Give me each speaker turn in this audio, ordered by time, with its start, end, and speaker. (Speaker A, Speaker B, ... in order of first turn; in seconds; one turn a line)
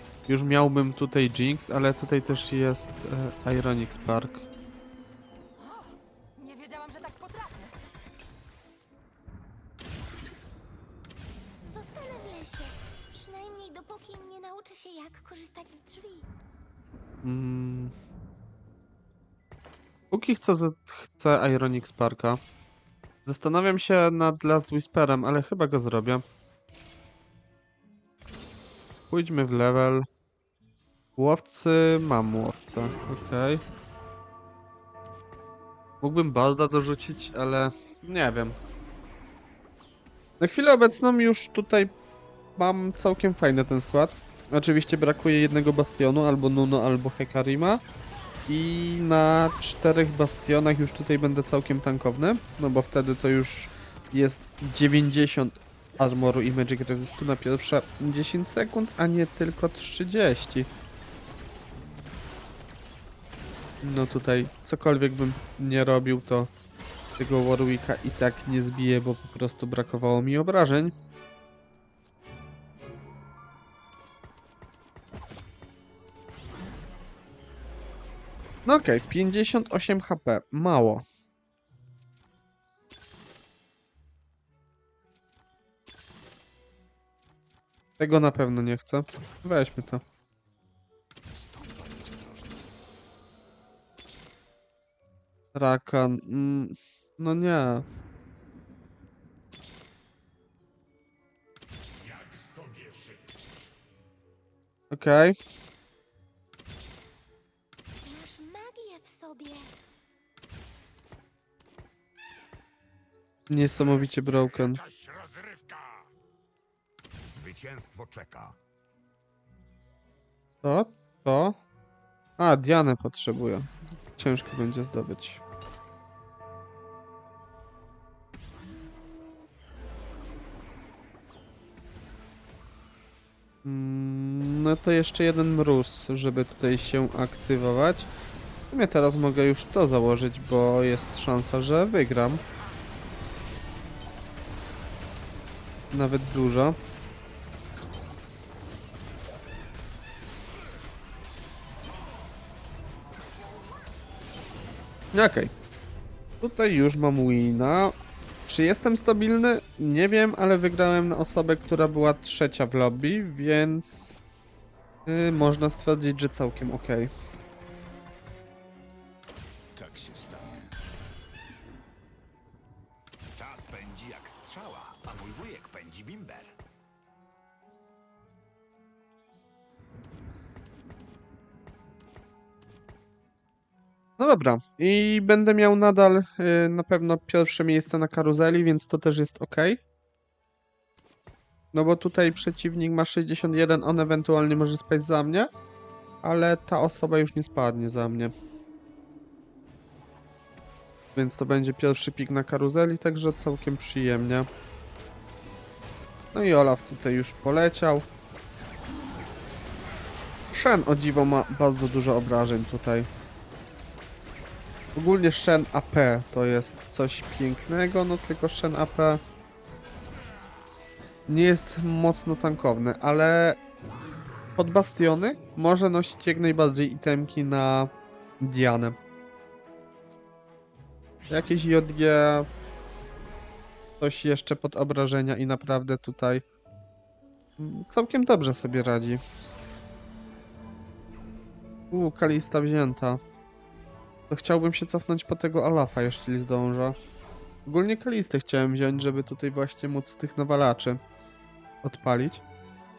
Speaker A: 0.3-4.5
Speaker B: 5.6-7.8
Speaker C: 11.6-16.3
Speaker A: 17.2-17.9
Speaker A: 20.1-22.4
Speaker A: 23.2-26.2
Speaker A: 29.1-30.1
Speaker A: 31.2-33.6
Speaker A: 36.0-38.5
Speaker A: 40.4-41.9
Speaker A: 42.6-47.8
Speaker A: 48.5-60.7
Speaker A: 63.8-66.5
Speaker A: 67.2-71.0
Speaker A: 78.7-81.0
Speaker A: 88.0-90.0
Speaker D: 91.3-92.7
Speaker A: 95.5-97.8
Speaker D: 102.1-103.2
Speaker A: 104.9-105.3
Speaker C: 108.0-109.7
Speaker A: 113.5-114.8
Speaker D: 114.0-116.0
Speaker D: 117.2-118.6
Speaker A: 120.6-121.6
Speaker A: 122.4-125.4
Speaker A: 133.6-138.1
Speaker A: 138.7-142.4
Speaker A: 145.9-146.8
Speaker A: 155.1-155.5
Speaker A: 156.4-157.9
Speaker A: 158.5-164.2
Speaker A: 165.1-167.1
Speaker D: 169.8-170.8
Speaker D: 173.4-176.5
Speaker A: 184.2-189.8
Speaker A: 191.7-195.5
Speaker A: 196.2-198.3
Speaker A: 201.2-204.5
Speaker A: 206.3-208.1
Speaker A: 210.5-213.1
Speaker A: 214.9-219.2
Speaker A: 221.3-223.6
Speaker A: 224.6-229.0
Speaker A: 231.3-232.5
Speaker A: 234.0-236.4
Speaker A: 237.6-239.2
Speaker A: 241.9-243.2
Speaker A: 244.3-247.0
Speaker A: 247.7-251.0
Speaker A: 251.8-252.4